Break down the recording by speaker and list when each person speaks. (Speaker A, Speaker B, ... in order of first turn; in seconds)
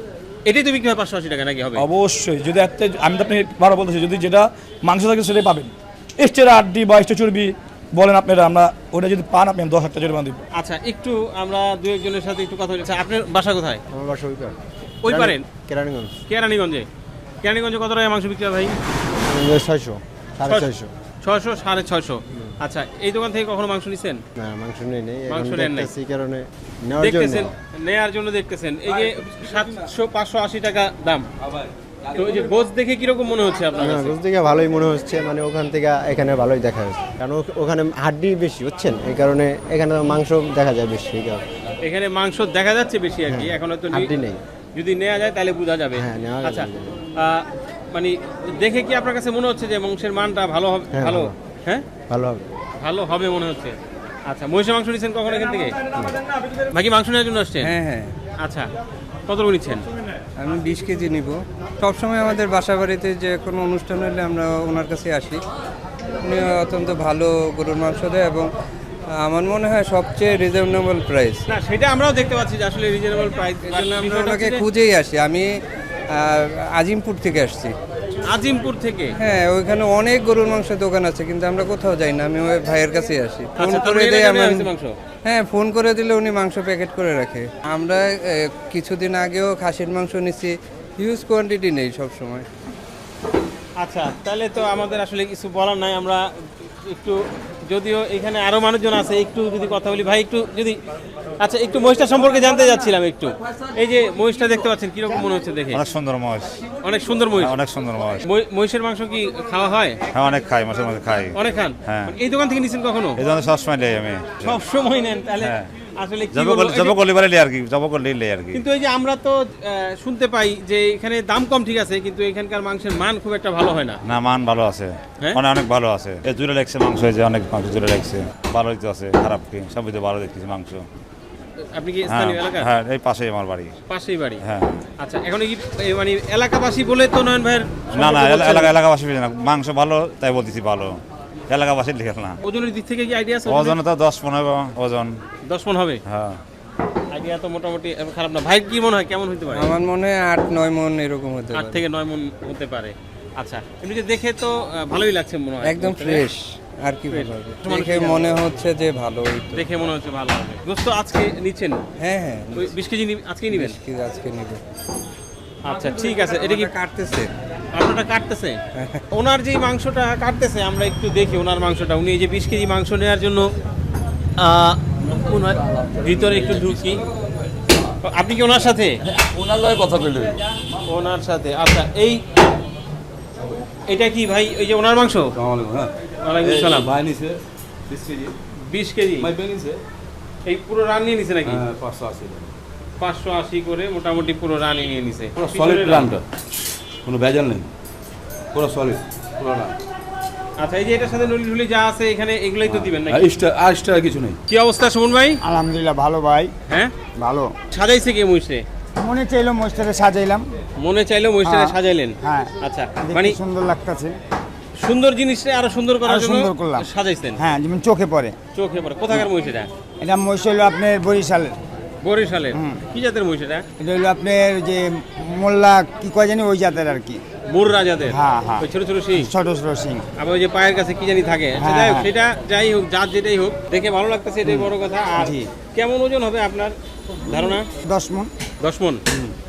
Speaker A: 0.5-1.9, 10.5-13.8, 15.0-15.4, 16.3-16.9, 17.4-18.7, 20.4-20.7, 21.2-24.2, 25.3-25.9, 27.0-31.2, 32.1-34.1, 41.8-44.1, 44.7-51.8, 52.8-55.8, 56.7-57.7, 58.4-58.7, 59.3-59.9, 71.5-74.6, 78.3-79.1, 83.6-85.0, 93.8-96.2, 96.8-100.8, 101.4-105.8, 106.8-107.6, 108.3-110.0, 111.3-113.2, 114.4-117.1, 118.5-124.0, 131.7-132.7, 133.9-134.4, 135.0-138.7, 142.4-143.8, 145.5-146.0, 147.1-149.8, 151.5-156.2, 157.1-158.3, 159.5-161.8, 162.5-163.8, 165.6-166.7, 167.7-168.6, 169.1-173.5, 174.4-177.0, 178.0-179.0, 180.9-182.2, 183.9-185.3, 186.2-186.9, 188.7-189.3, 190.4-191.6, 193.0-196.1, 200.6-203.3, 204.5-205.4, 207.7-208.6, 210.8-213.4, 214.8-217.4, 218.5-219.7, 222.0-223.6, 227.5-229.3, 230.2-236.7, 237.3-237.7, 238.6-239.0
Speaker B: 1.8-10.4
Speaker C: 13.9-16.2, 19.2-20.9, 24.4-27.6, 33.8-41.4, 43.2-44.4, 45.9-47.0, 50.9-51.4, 51.9-52.5, 55.9-56.2
Speaker D: 57.6-58.1, 60.4-65.4, 66.2-68.5, 69.1-71.5, 73.6-75.5, 76.1-77.7, 79.2-84.7, 85.2-92.5, 149.5-151.8, 155.6-159.7, 162.0-162.7, 163.5-164.6, 166.3-167.3, 168.7-169.0
Speaker E: 105.7-106.6, 107.3-108.2, 110.1-112.1, 113.2-114.6, 115.4-115.7, 116.3-118.6, 124.0-130.8, 132.1-133.7, 134.4-134.8, 137.9-142.4, 143.4-145.2, 146.1-146.4
Speaker F: 179.1-180.4, 185.3-188.3, 189.2-189.8, 191.4-192.5, 195.4-196.2, 197.0-197.7, 198.5-199.7, 202.7-204.4
Speaker G: 205.4-206.5, 207.2-207.5, 209.0-210.5, 211.4-214.2, 216.0-218.3, 220.0-221.6, 222.5-222.8, 223.8-227.2, 228.1-230.0, 231.6-232.1, 234.4-235.5, 237.3-238.3